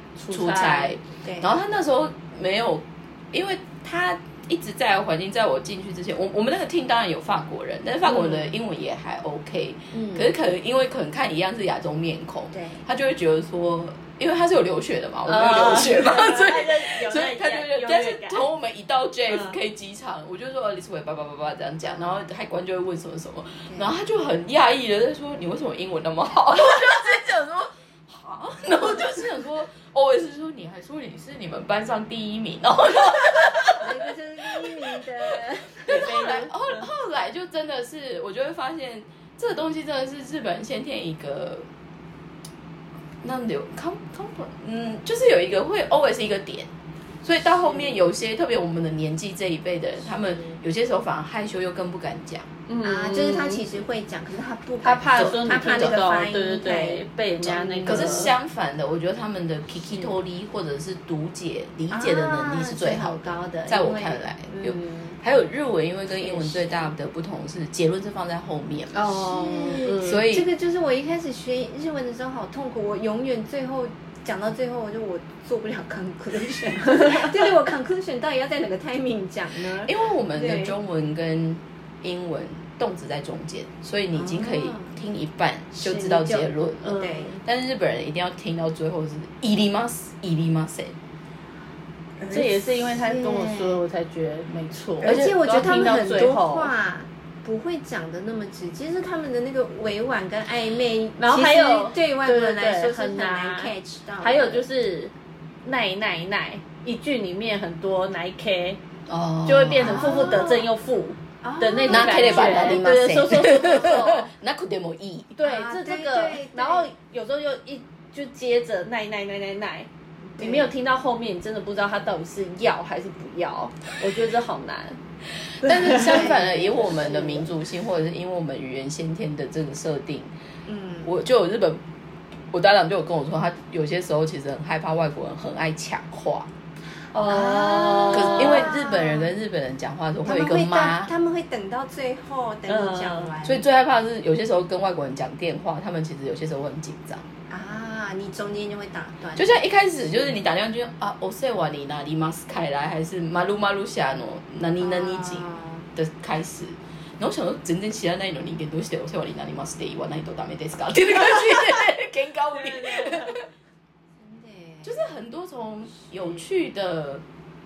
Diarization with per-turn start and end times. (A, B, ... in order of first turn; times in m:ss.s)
0:00.2-0:01.0 A
0:00.3-0:34.0 B
0:01.2-0:01.5 C
0:09.9-0:10.3 C
0:12.5-0:12.8 C
0:15.3-0:18.5 A
0:33.8-0:36.2 C
0:35.8-0:36.9 A
0:35.8-0:41.6 B
0:43.2-0:46.7 B
0:47.2-0:52.5 B
0:52.7-0:53.6 A
0:52.8-0:58.2 C
0:54.8-0:58.3 A
0:55.2-0:56.0 B
0:57.8-1:09.0 B
1:01.9-1:05.2 C
1:06.2-1:06.8 C
1:08.9-1:10.2 A
1:09.0-1:20.7 C
1:10.0-1:10.4 B
1:19.8-1:30.9 B
1:24.1-1:24.9 C
1:25.7-1:27.4 C
1:26.8-1:27.4 A
1:32.2-1:33.8 C
1:32.3-1:36.7 A
1:35.0-1:44.6 C
1:35.0-1:35.3 B
1:41.2-1:45.1 A
1:45.6-1:48.8 A
1:49.1-1:50.3 B
1:49.4-1:54.3 A
1:49.8-1:50.7 C
1:51.4-1:52.8 C
1:51.9-1:55.4 B
1:55.4-2:05.0 A
1:55.4-1:56.9 C
2:00.3-2:00.7 C
2:05.6-2:10.3 B
2:05.6-2:07.5 A
2:06.0-2:07.4 C
2:10.7-2:11.1 C
2:11.0-2:11.8 B
2:12.5-2:16.5 B
2:17.1-2:18.7 A
2:17.2-2:19.3 C
2:18.1-2:21.1 B
2:20.2-2:23.6 C
2:22.7-2:23.3 A
2:23.4-2:27.2 B
2:27.5-2:29.6 C
2:29.4-2:43.4 B
2:34.8-2:35.8 C
2:42.7-2:43.3 A
2:44.2-2:45.0 C
2:44.8-2:47.2 B